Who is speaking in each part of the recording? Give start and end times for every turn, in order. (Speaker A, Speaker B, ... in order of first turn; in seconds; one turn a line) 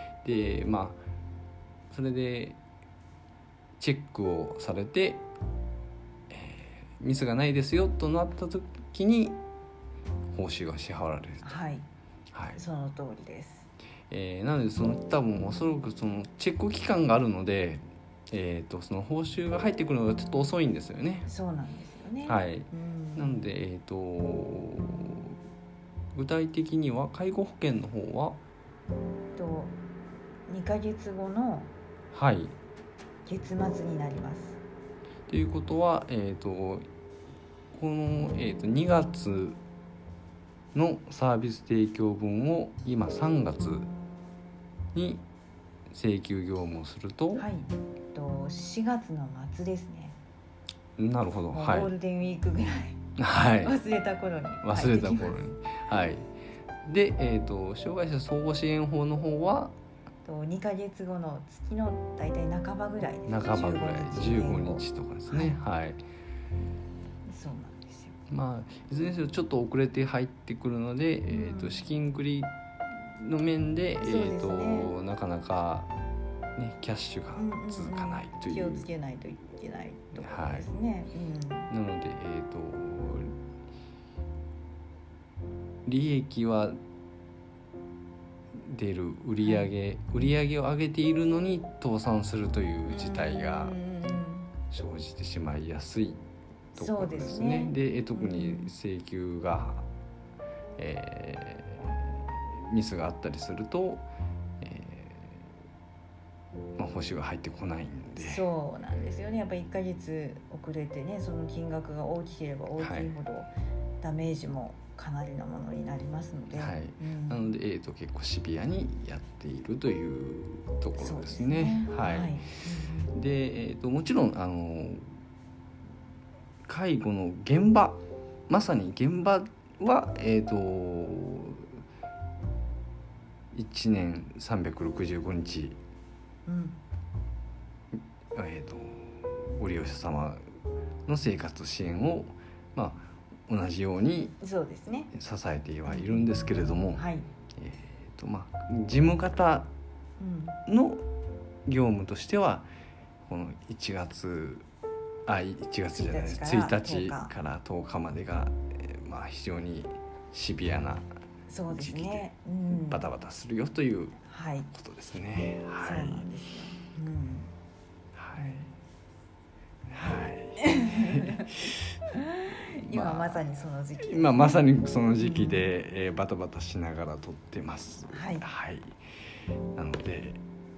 Speaker A: 0.2-1.0
Speaker A: 1.9-2.6
Speaker A: 3.8-5.2
Speaker A: 6.3-9.4
Speaker A: 10.3-11.5
Speaker B: 11.4-11.8
Speaker A: 12.3-12.6
Speaker B: 12.5-13.7
Speaker A: 14.1-21.3
Speaker B: 21.2-23.4
Speaker A: 22.2-25.4
Speaker A: 26.1-28.4
Speaker B: 29.4-29.8
Speaker B: 30.5-31.7
Speaker A: 32.1-32.5
Speaker B: 33.2-34.6
Speaker A: 35.3-36.9
Speaker A: 37.7-39.6
Speaker A: 40.7-43.9
Speaker A: 44.9-45.2
Speaker A: 45.9-47.5
Speaker B: 47.4-50.2
Speaker A: 51.0-51.9
Speaker B: 51.5-53.0
Speaker A: 53.2-53.8
Speaker B: 53.6-55.5
Speaker A: 54.6-56.3
Speaker A: 56.9-59.7
Speaker B: 60.2-65.6
Speaker A: 63.3-66.0
Speaker B: 67.2-68.1
Speaker A: 68.3-75.9
Speaker B: 71.3-71.9
Speaker B: 74.0-74.9
Speaker A: 76.6-78.9
Speaker B: 77.3-81.7
Speaker A: 80.2-80.7
Speaker A: 81.7-83.3
Speaker A: 85.8-86.8
Speaker A: 88.5-93.8
Speaker B: 89.4-89.7
Speaker B: 92.9-94.5
Speaker A: 94.7-96.2
Speaker A: 96.7-99.8
Speaker B: 96.8-98.7
Speaker A: 100.8-104.1
Speaker A: 104.6-105.4
Speaker A: 106.8-108.4
Speaker B: 108.2-113.5
Speaker A: 112.8-113.1
Speaker B: 114.0-117.5
Speaker A: 116.6-122.4
Speaker B: 121.0-123.1
Speaker A: 123.1-125.1
Speaker A: 126.7-131.7
Speaker A: 133.5-135.8
Speaker B: 136.4-136.8
Speaker A: 138.3-140.4
Speaker A: 141.1-144.4
Speaker B: 144.4-145.1
Speaker A: 145.1-147.0
Speaker B: 145.8-146.2
Speaker B: 146.9-147.2
Speaker A: 147.6-149.7
Speaker B: 150.2-150.6
Speaker A: 150.7-151.1
Speaker A: 151.7-152.7
Speaker A: 153.3-154.7
Speaker A: 155.3-161.1
Speaker B: 155.9-157.3
Speaker B: 161.5-163.1
Speaker A: 161.7-164.2
Speaker B: 164.3-164.7
Speaker A: 164.7-166.3
Speaker B: 165.8-167.5
Speaker A: 168.2-168.7
Speaker B: 168.4-168.7
Speaker A: 169.9-171.9
Speaker B: 170.6-171.6
Speaker B: 172.1-174.7
Speaker A: 172.7-179.0
Speaker B: 175.2-175.7
Speaker B: 178.1-178.4
Speaker A: 179.8-180.4